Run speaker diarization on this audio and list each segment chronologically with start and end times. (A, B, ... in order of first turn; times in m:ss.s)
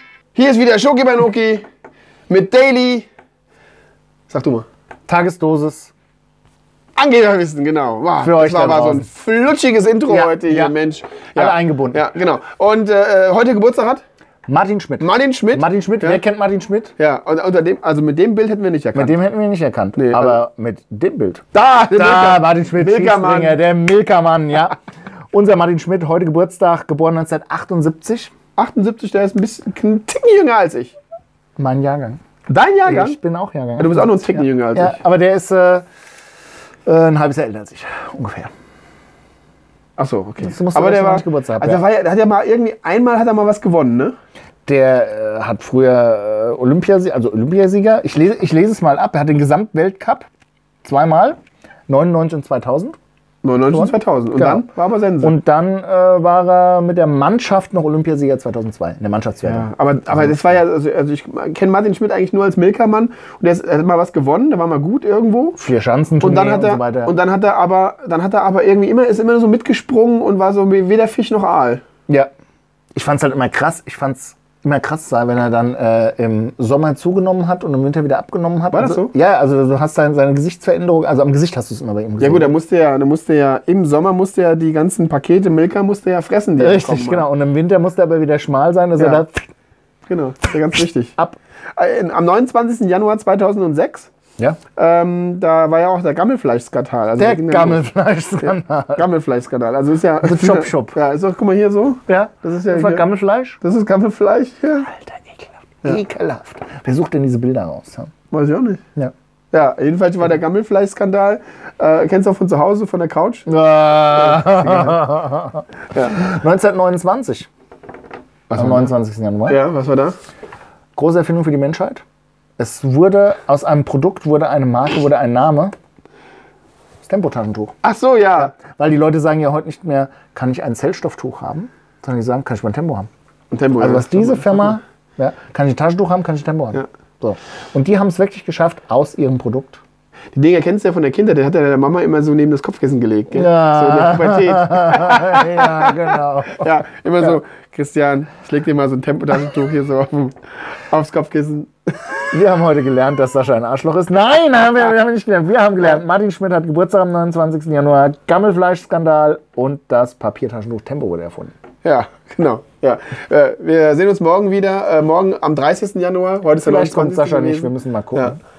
0:00.3-0:01.6 A
0:02.3-0:03.1 A
0:04.3-0:04.7 A
0:05.1-0:05.9 B
0:07.0-0:14.0 A
0:08.2-0:09.1 B
0:10.1-0:10.7 B
0:11.3-0:12.1 B
0:14.5-0:16.9 B
0:15.0-0:16.2 A
0:17.0-0:19.2 A
0:18.9-0:24.8 B
0:20.0-0:20.4 A
0:21.5-0:23.6 A
0:25.3-0:28.3 B
0:28.6-0:31.0 A
0:31.6-0:32.2 B
0:32.5-0:33.2 A
0:32.8-0:35.8 B
0:33.8-0:35.0 A
0:36.8-0:38.5 B
0:40.0-0:44.2 A
0:40.4-0:41.8 B
0:44.6-0:50.3 B
0:50.8-0:53.0 B
0:53.4-0:55.4 A
0:53.7-0:54.6 B
0:55.2-1:00.6 B
0:59.4-1:05.6 A
1:05.6-1:07.2 B
1:06.2-1:11.8 A
1:12.9-1:22.5 B
1:18.7-1:19.1 A
1:22.2-1:27.2 A
1:26.6-1:29.4 B
1:29.0-1:29.2 A
1:30.1-1:31.1 A
1:31.8-1:34.1 A
1:34.7-1:37.9 A
1:37.2-1:39.0 B
1:38.4-1:43.0 A
1:40.2-1:41.0 B
1:42.1-1:43.6 B
1:43.6-1:44.9 A
1:44.9-1:48.1 B
1:48.3-1:48.8 A
1:49.5-1:53.5 A
1:53.5-1:57.5 B
1:54.1-1:55.0 A
1:58.5-1:58.9 A
1:58.5-1:59.6 B
1:59.5-2:00.2 A
2:01.0-2:02.0 B
2:02.6-2:05.7 B
2:07.0-2:07.7 B
2:07.8-2:08.6 A
2:08.4-2:13.1 B
2:13.5-2:14.8 A
2:13.8-2:19.8 B
2:20.3-2:25.9 A
2:23.3-2:27.4 B
2:26.5-2:32.3 A
2:32.3-2:41.5 B
2:41.8-2:48.4 A
2:46.6-2:48.4 B